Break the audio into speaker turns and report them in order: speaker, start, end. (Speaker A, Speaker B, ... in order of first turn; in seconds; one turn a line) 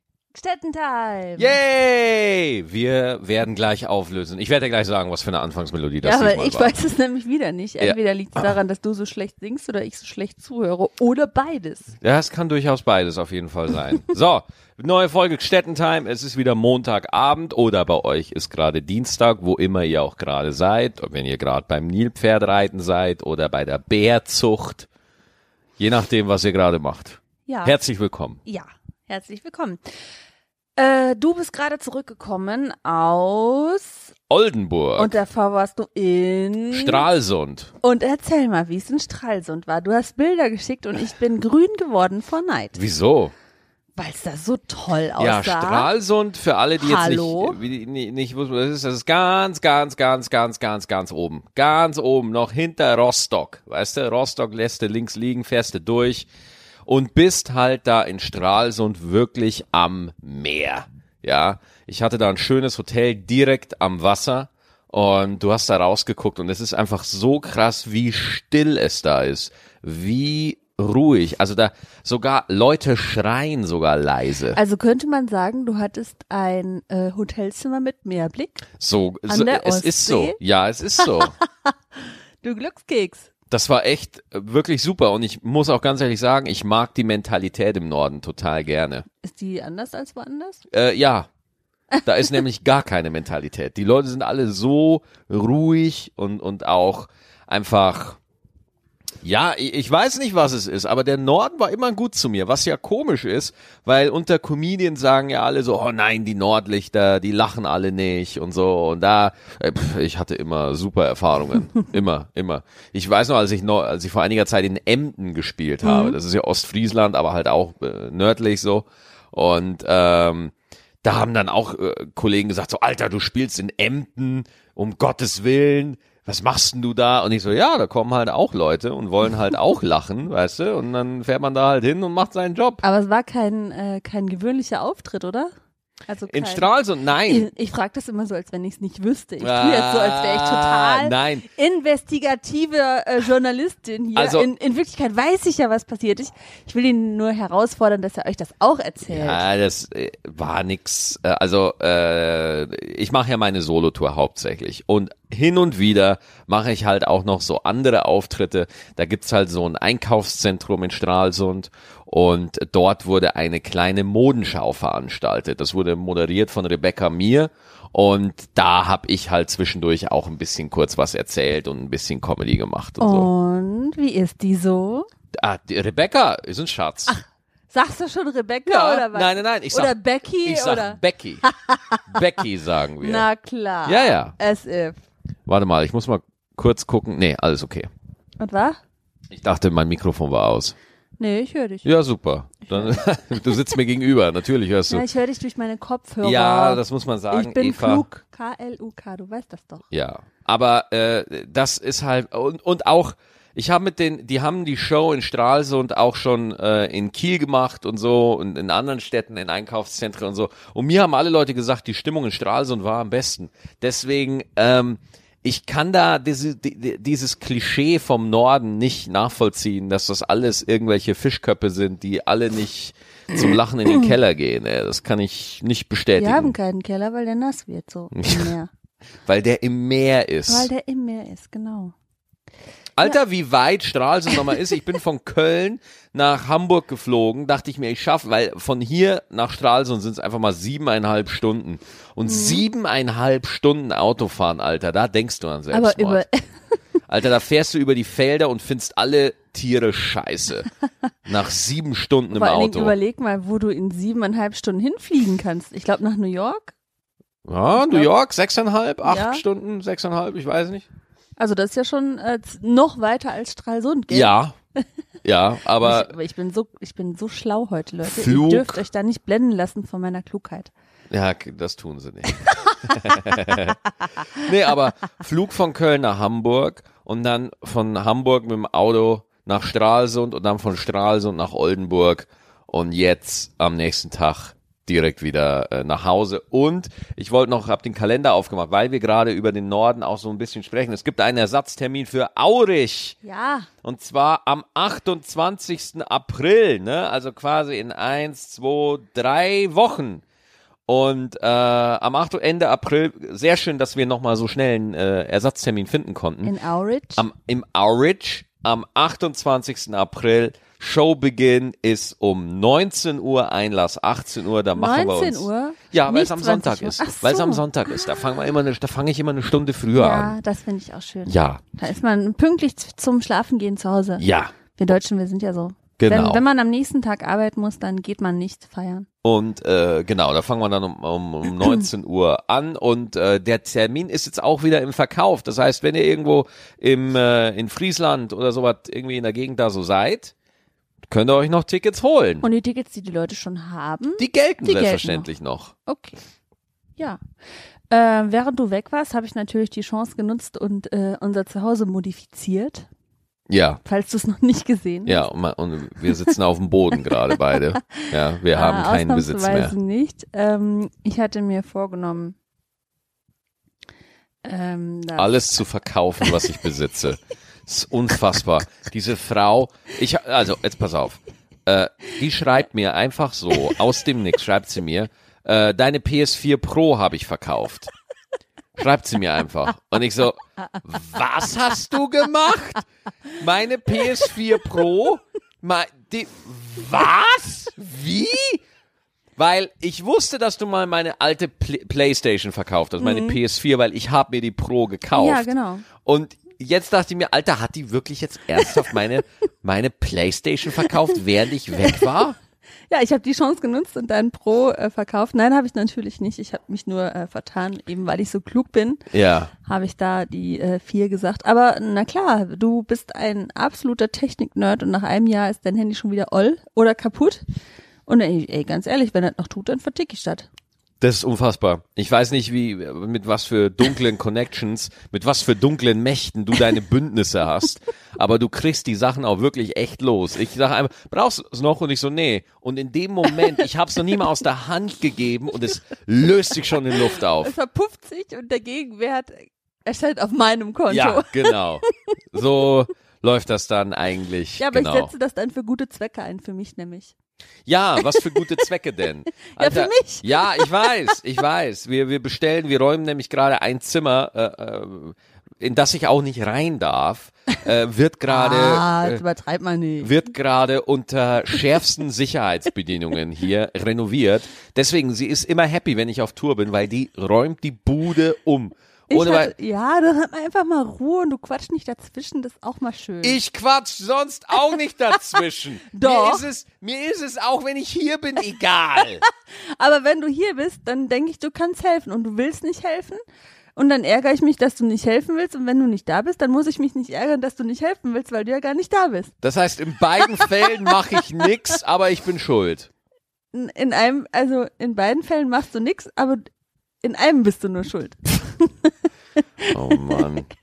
Speaker A: 0.3-1.6
Speaker B: 1.4-6.8
Speaker A: 6.0-11.9
Speaker B: 12.0-24.9
Speaker B: 25.8-28.4
Speaker A: 27.5-27.8
Speaker A: 28.4-29.8
Speaker A: 30.8-34.1
Speaker B: 34.3-35.2
Speaker A: 35.0-37.1
Speaker B: 36.7-37.7
Speaker A: 37.8-42.8
Speaker B: 42.8-43.3
Speaker A: 44.0-45.9
Speaker B: 45.2-56.3
Speaker A: 46.8-47.6
Speaker B: 56.9-74.6
Speaker A: 74.5-78.7
Speaker B: 78.8-81.3
Speaker A: 79.3-80.4
Speaker A: 81.0-83.3
Speaker B: 83.5-89.1
Speaker A: 89.2-90.6
Speaker B: 90.7-91.3
Speaker B: 92.0-98.2
Speaker B: 99.2-132.8
Speaker A: 115.8-116.2
Speaker A: 132.8-135.5
Speaker A: 136.1-136.7
Speaker B: 136.3-137.5
Speaker A: 137.3-149.4
Speaker B: 139.4-141.4
Speaker B: 144.2-144.5
Speaker B: 149.1-173.3
Speaker A: 173.0-175.1
Speaker B: 175.3-177.2
Speaker A: 177.7-182.0
Speaker B: 178.7-181.4
Speaker B: 182.1-183.3
Speaker A: 183.0-185.0
Speaker B: 183.9-184.3
Speaker B: 185.5-187.9
Speaker A: 188.4-188.8
Speaker B: 189.3-190.8
Speaker A: 191.2-191.9
Speaker B: 191.8-195.1
Speaker A: 194.9-199.8
Speaker B: 196.2-198.1
Speaker B: 199.9-226.6
Speaker A: 226.2-228.7
Speaker B: 228.1-228.6
Speaker B: 229.3-230.7
Speaker A: 230.5-231.9
Speaker B: 233.0-246.2
Speaker A: 242.3-242.6
Speaker A: 245.7-246.4
Speaker B: 247.1-250.7
Speaker B: 251.3-252.9
Speaker A: 252.3-256.8
Speaker B: 257.4-260.9
Speaker A: 257.8-258.1
Speaker A: 259.0-259.4
Speaker A: 261.4-264.8
Speaker B: 264.1-264.5
Speaker B: 265.2-266.1
Speaker A: 265.8-270.7
Speaker B: 268.0-268.9
Speaker B: 271.1-293.2
Speaker A: 272.6-273.0
Speaker A: 293.2-293.7
Speaker B: 293.8-300.2
Speaker B: 300.9-306.5
Speaker A: 306.4-307.3
Speaker B: 307.2-320.4
Speaker A: 314.7-318.2
Speaker A: 319.9-324.2
Speaker B: 321.3-321.6
Speaker B: 324.2-324.5
Speaker A: 324.8-329.1
Speaker B: 326.0-326.4
Speaker B: 329.2-340.3
Speaker B: 341.1-342.5
Speaker A: 342.4-345.3
Speaker B: 344.2-345.7
Speaker A: 345.9-346.2
Speaker A: 347.9-352.9
Speaker B: 353.5-353.8
Speaker A: 353.9-355.3
Speaker B: 355.1-359.7
Speaker A: 357.5-362.4
Speaker A: 364.4-365.6
Speaker B: 365.2-377.9
Speaker B: 378.8-382.9
Speaker B: 383.4-388.6
Speaker B: 389.4-402.4
Speaker A: 393.0-393.4
Speaker A: 395.1-395.9
Speaker A: 402.9-409.1
Speaker B: 409.1-409.5
Speaker A: 409.6-417.4
Speaker A: 418.1-420.5
Speaker B: 421.0-437.5
Speaker A: 437.0-441.6
Speaker B: 440.9-445.1
Speaker A: 444.6-447.1
Speaker B: 447.7-459.2
Speaker A: 448.0-448.4
Speaker A: 449.5-451.1
Speaker A: 458.3-460.1
Speaker B: 460.0-469.5
Speaker A: 469.1-473.4
Speaker B: 473.2-479.2
Speaker A: 475.9-476.4
Speaker A: 479.7-483.2
Speaker A: 483.8-489.3
Speaker B: 489.4-492.9
Speaker A: 490.2-491.2
Speaker A: 493.5-496.4
Speaker A: 497.0-498.9
Speaker A: 499.6-500.3
Speaker B: 499.7-500.5